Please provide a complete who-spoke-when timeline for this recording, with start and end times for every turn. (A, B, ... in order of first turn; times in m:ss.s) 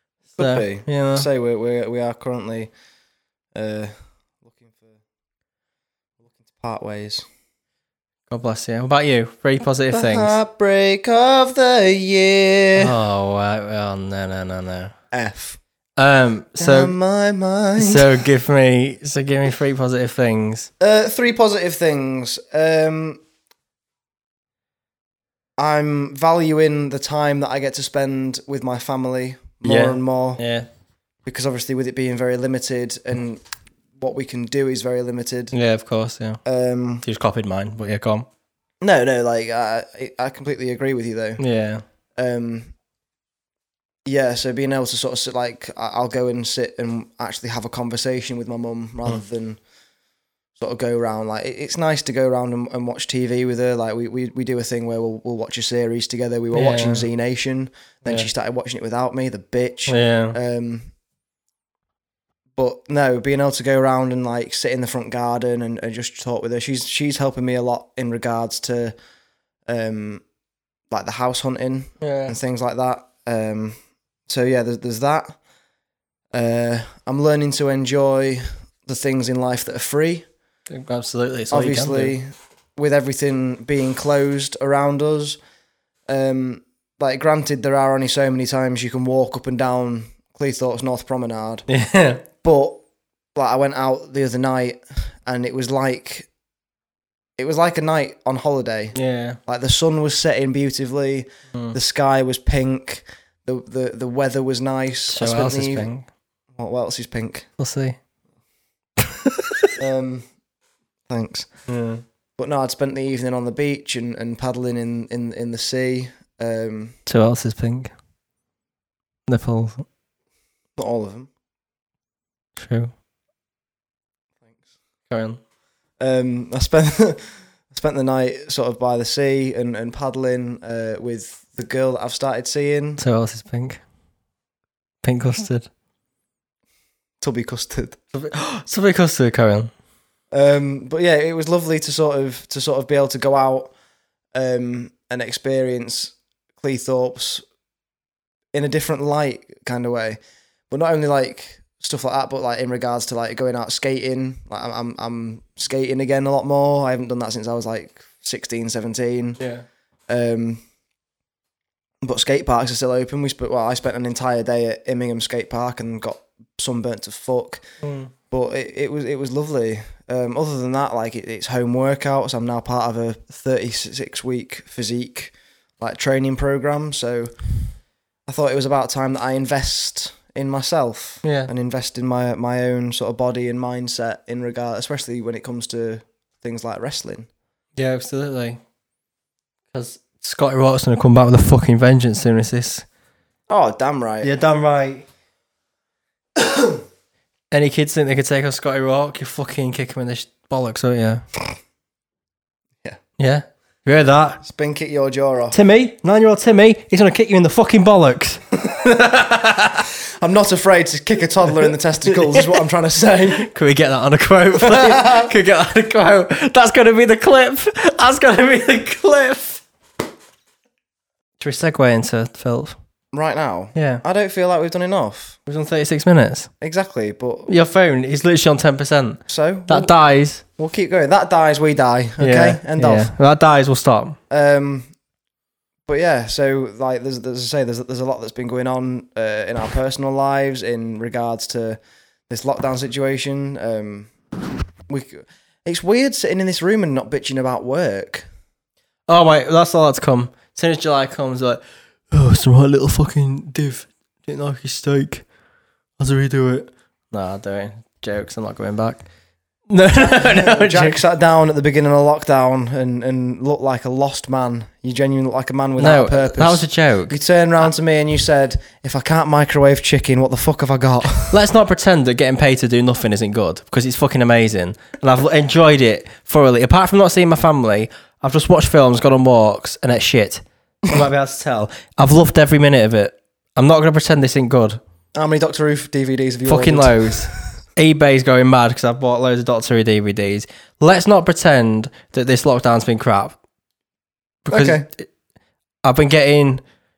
0:00.4-0:01.3 A
0:00.4-0:02.7 B
0:03.5-0:03.9 B
0:04.4-0:05.0 B
0:06.4-0:07.2 B
0:08.3-0:10.4 A
0:09.9-0:12.9 B
0:12.8-0:14.9 A
0:15.1-0:15.6 B
0:16.0-0:16.9 A
0:16.6-0:18.1 B
0:17.8-0:20.7 A
0:20.8-0:23.2 B
0:25.6-0:30.4 B
0:29.6-0:30.7 A
0:31.2-0:33.4 B
0:34.0-0:35.5 B
0:35.5-0:36.4 A
0:36.4-0:37.0 B
0:37.0-0:38.3 A
0:38.8-0:41.4 B
0:41.4-0:41.8 A
0:42.2-0:42.7 B
0:44.0-0:49.6 B
0:50.6-1:00.9 B
0:56.5-0:57.0 A
0:59.9-1:00.4 A
1:02.6-1:08.9 B
1:09.7-1:10.2 B
1:10.9-1:13.8 B
1:12.0-1:12.4 A
1:14.3-1:15.4 B
1:16.3-1:20.3 B
1:20.7-1:22.1 A
1:21.5-1:25.4 B
1:26.1-1:31.6 B
1:31.7-1:32.2 A
1:32.4-1:32.8 B
1:33.3-1:36.3 B
1:37.4-1:45.9 B
1:38.9-1:39.4 A
1:45.1-1:46.0 A
1:46.5-1:47.5 B
1:47.6-1:48.0 A
1:49.0-1:49.7 A
1:49.8-1:50.3 B
1:51.1-1:51.5 B
1:51.7-1:52.0 A
1:52.4-1:57.0 B
1:57.0-1:57.9 A
1:59.3-1:59.8 A
2:00.8-2:01.3 B
2:02.6-2:02.9 A
2:05.1-2:05.4 A
2:06.0-2:13.0 B
2:13.0-2:13.8 A
2:15.0-2:15.7 A
2:17.2-2:18.0 B
2:18.1-2:19.7 A
2:20.3-2:23.7 B
2:24.3-2:27.4 B
2:28.5-2:30.2 B
2:30.7-2:39.4 B
2:39.4-2:39.6 A
2:40.1-2:40.6 B
2:42.0-2:47.6 B
2:47.8-2:48.1 A
2:48.3-2:57.3 B
2:58.2-3:07.3 B
3:01.2-3:01.5 A
3:07.8-3:08.6 A
3:09.7-3:12.8 A
3:13.5-3:14.3 B
3:14.2-3:15.1 A
3:17.5-3:21.2 A
3:23.2-3:24.4 A
3:24.4-3:25.6 B
3:25.5-3:29.9 A
3:30.2-3:33.5 B
3:32.1-3:32.6 A
3:33.3-3:39.6 A
3:34.6-3:35.3 B
3:41.4-3:42.8 A
3:43.1-3:45.4 B
3:43.7-3:44.0 A
3:45.4-3:46.5 A
3:46.6-3:47.5 B
3:47.5-3:50.4 A
3:49.3-3:49.9 B
3:50.6-3:53.1 B
3:52.2-3:54.2 A
3:54.3-3:54.9 B
3:55.9-4:04.1 B
4:04.9-4:08.2 B
4:09.1-4:15.3 A
4:16.0-4:19.0 A
4:19.7-4:21.0 A
4:20.0-4:31.3 B
4:25.8-4:27.2 A
4:31.3-4:44.8 A
4:45.1-4:47.3 B
4:46.4-4:53.4 A
4:54.4-4:55.1 A
4:54.5-4:54.8 B
4:55.8-4:56.6 A